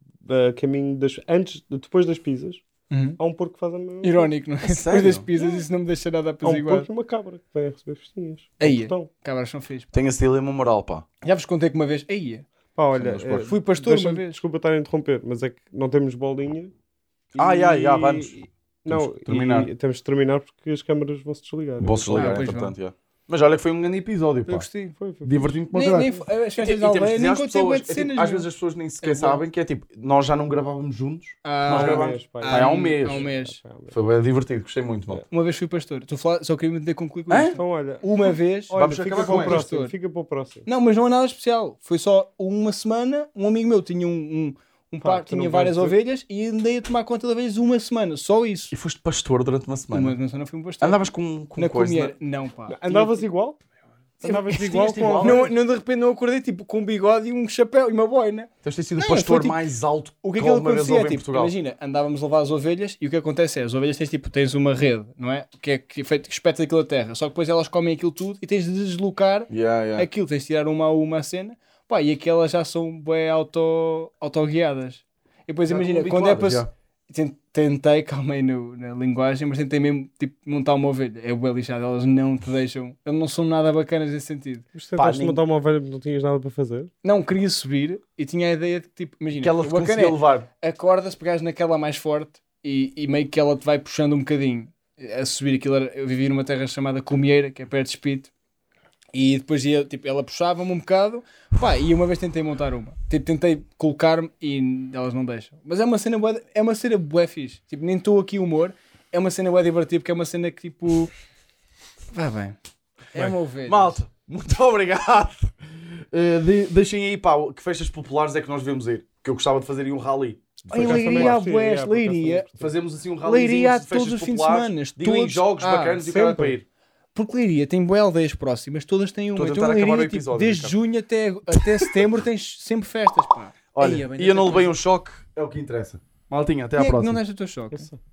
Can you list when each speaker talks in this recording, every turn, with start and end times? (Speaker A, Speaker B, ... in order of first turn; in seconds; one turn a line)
Speaker A: 0.2-2.6
Speaker B: 2.9-3.2
Speaker A: 3.2-4.3
Speaker B: 4.0-6.9
Speaker C: 4.6-5.3
Speaker A: 5.4-5.6
Speaker A: 6.4-9.1
Speaker B: 8.6-9.9
Speaker C: 9.9-11.1
Speaker B: 11.2-12.5
Speaker A: 12.8-16.7
Speaker C: 13.0-13.5
Speaker B: 13.4-14.4
Speaker A: 17.3-22.4
Speaker C: 17.4-18.4
Speaker C: 18.9-19.7
Speaker C: 21.8-24.7
Speaker B: 22.1-22.7
Speaker B: 24.5-25.0
Speaker A: 25.0-25.6
Speaker C: 25.2-33.3
Speaker B: 25.7-28.5
Speaker B: 29.0-29.4
Speaker B: 31.4-33.6
Speaker A: 31.7-33.9
Speaker C: 33.9-35.2
Speaker B: 35.3-39.9
Speaker C: 37.3-37.6
Speaker A: 37.6-38.1
Speaker A: 38.7-40.7
Speaker C: 38.7-39.6
Speaker B: 40.7-48.7
Speaker A: 45.0-46.0
Speaker C: 48.7-50.2
Speaker B: 49.9-53.2
Speaker C: 50.8-52.1
Speaker A: 52.7-53.6
Speaker A: 54.2-55.5
Speaker C: 54.2-55.5
Speaker B: 54.2-59.6
Speaker C: 58.6-61.5
Speaker B: 60.2-84.7
Speaker C: 69.5-70.1
Speaker C: 75.7-76.7
Speaker A: 84.8-86.9
Speaker C: 85.0-85.4
Speaker B: 87.0-98.3
Speaker C: 89.4-90.5
Speaker B: 99.1-111.1
Speaker B: 112.1-112.6
Speaker B: 113.1-114.0
Speaker C: 113.7-115.5
Speaker C: 116.1-121.4
Speaker B: 120.7-122.5
Speaker A: 120.8-122.6
Speaker C: 122.5-126.7
Speaker B: 123.2-126.2
Speaker A: 126.0-126.5
Speaker B: 127.2-134.8
Speaker C: 129.4-130.8
Speaker C: 131.6-131.9
Speaker C: 133.7-137.2
Speaker B: 136.8-137.9